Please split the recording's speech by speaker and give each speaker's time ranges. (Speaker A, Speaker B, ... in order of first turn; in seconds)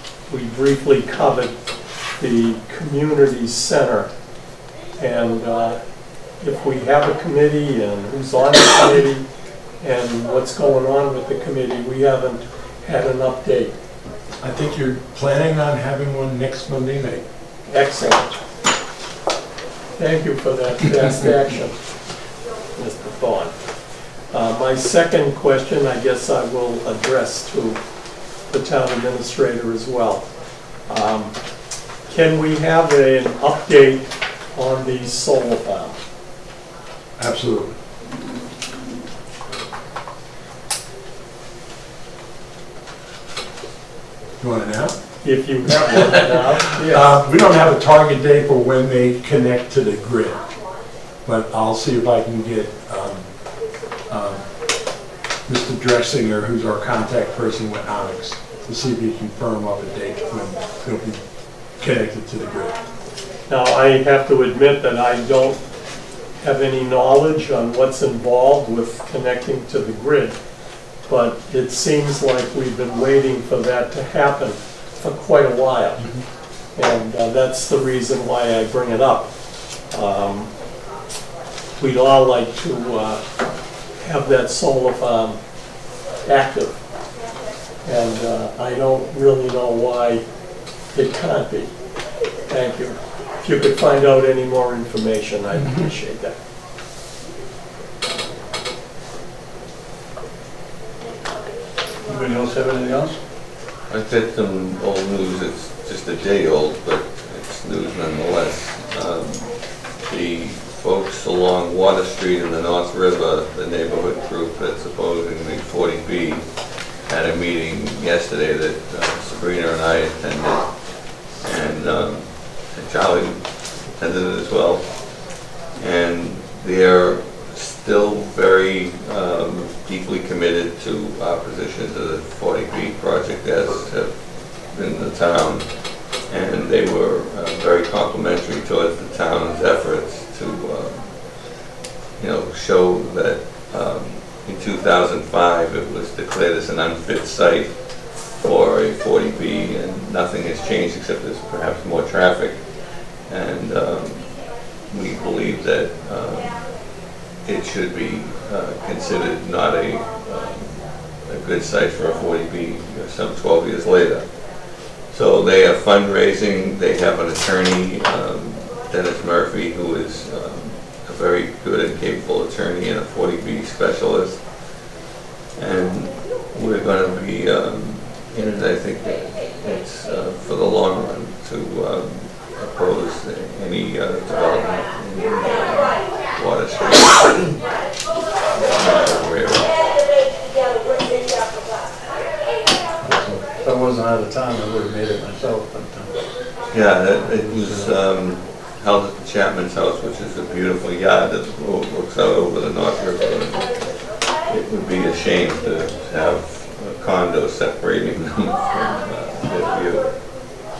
Speaker A: 0.3-1.5, 2.2-4.1, 5.0-5.8, 6.4-9.2, 9.8-13.7, 17.7-18.3, 20.0-21.8, 22.8-23.5, 24.3-27.8, 28.5-30.2, 30.9-31.3, 32.1-34.0, 34.5-36.0, 45.2-47.1, 63.5-65.6, 66.4-70.3, 71.1-76.0, 76.8-79.3, 79.9-80.5, 81.8-83.2, 84.0-85.4, 86.2-86.8, 87.8-90.2, 90.9-91.7, 92.5-96.3
Speaker B: 14.4-17.2, 37.2-37.8, 44.4-44.9, 45.6-50.4, 51.2-53.3, 54.1-54.4, 55.5-61.2, 61.8-62.8, 95.5-95.9
Speaker C: 102.0-103.2, 193.0-197.9
Speaker D: 103.9-116.5, 117.1-120.7, 121.4-125.0, 125.8-135.7, 136.3-141.1, 142.2-147.8, 148.4-152.6, 153.3-154.3, 154.9-156.7, 157.4-164.2, 165.1-174.4, 175.6-187.6, 188.6-189.8, 196.7-203.9, 204.4-210.2